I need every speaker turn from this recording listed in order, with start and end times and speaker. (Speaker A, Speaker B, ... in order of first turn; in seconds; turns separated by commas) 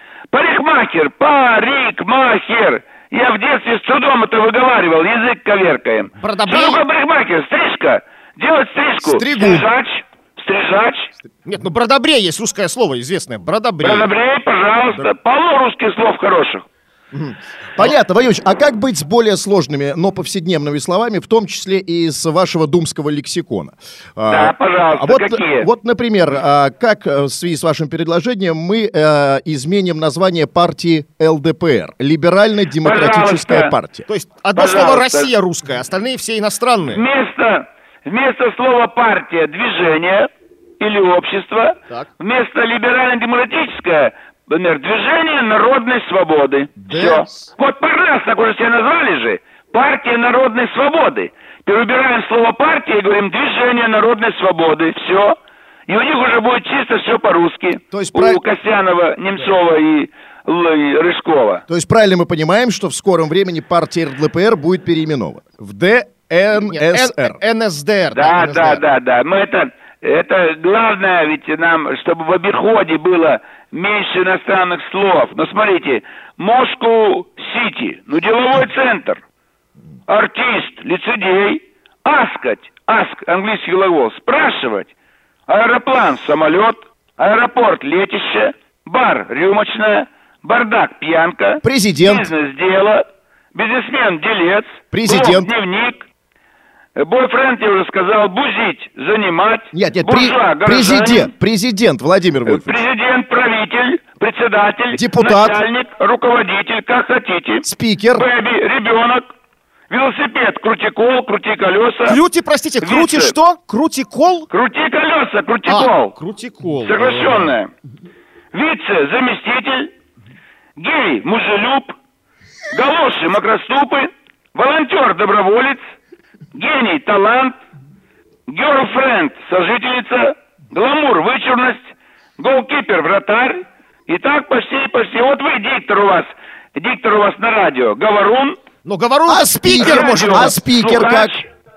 Speaker A: 0.3-11.1, Speaker B: 6.2-6.8, Speaker C: 9.0-9.7, Speaker B: 11.4-14.1, Speaker A: 13.8-16.6, Speaker B: 17.1-17.9, Speaker C: 17.8-34.0, Speaker A: 24.3-25.7, Speaker A: 32.8-33.7, Speaker B: 34.1-37.0, Speaker A: 34.5-35.3, Speaker A: 36.9-40.3, Speaker A: 40.8-55.4, Speaker C: 46.8-47.5, Speaker A: 55.9-61.6, Speaker C: 57.9-58.4, Speaker C: 61.7-67.3, Speaker B: 66.5-68.8, Speaker A: 68.1-79.2, Speaker A: 80.1-84.9, Speaker A: 85.5-96.0, Speaker C: 91.6-92.3, Speaker C: 94.9-95.5, Speaker A: 97.0-101.3, Speaker C: 99.7-102.8, Speaker A: 102.5-107.7, Speaker C: 104.9-105.6, Speaker C: 107.6-108.3, Speaker A: 108.2-109.2, Speaker A: 109.9-112.2, Speaker B: 112.0-114.5, Speaker A: 112.8-113.3, Speaker A: 114.5-116.1, Speaker B: 115.7-117.6, Speaker A: 116.8-117.7, Speaker A: 118.5-119.9, Speaker A: 120.8-121.9, Speaker A: 122.7-125.8, Speaker A: 126.5-127.6, Speaker A: 128.5-138.6, Speaker B: 138.8-140.5, Speaker C: 139.3-141.4, Speaker A: 139.7-141.4